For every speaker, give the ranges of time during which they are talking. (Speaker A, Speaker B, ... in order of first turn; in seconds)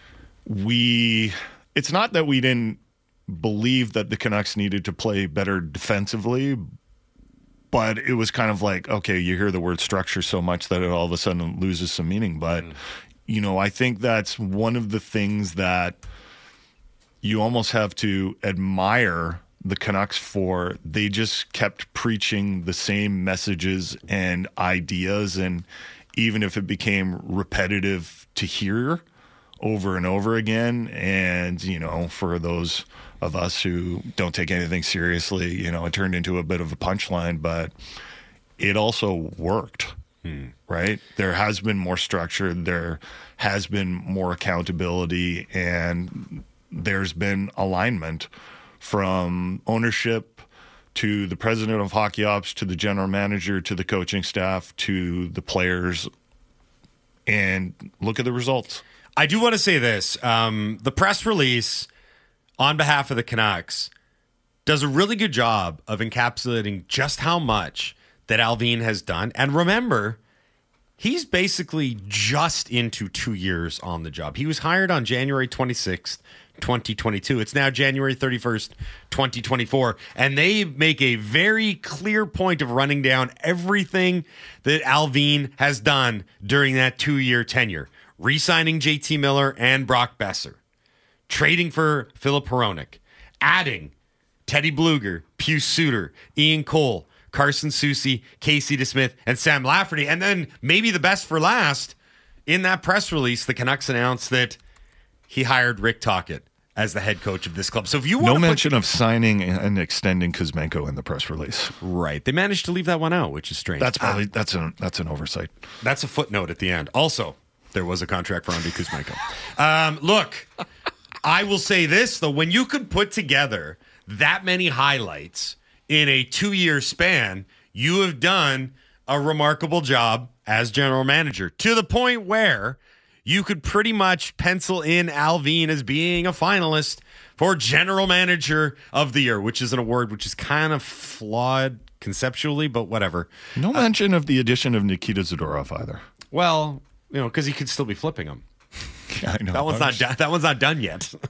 Speaker A: 0.5-6.7, 7.7-12.8, 13.3-16.0, 17.2-29.0, 29.6-37.7, 38.6-40.0, 40.7-48.3, 48.8-56.1, 57.3-58.8, 108.2-111.8, 113.8-115.5, 143.6-146.0, 149.1-150.0
Speaker B: 40.2-40.5, 59.2-61.9, 62.6-63.9, 64.7-70.2, 71.0-90.6, 91.3-93.9, 94.5-102.0, 102.5-104.6, 105.3-108.8, 111.8-114.2, 115.8-120.5, 121.2-143.9, 146.3-148.4, 149.5-151.2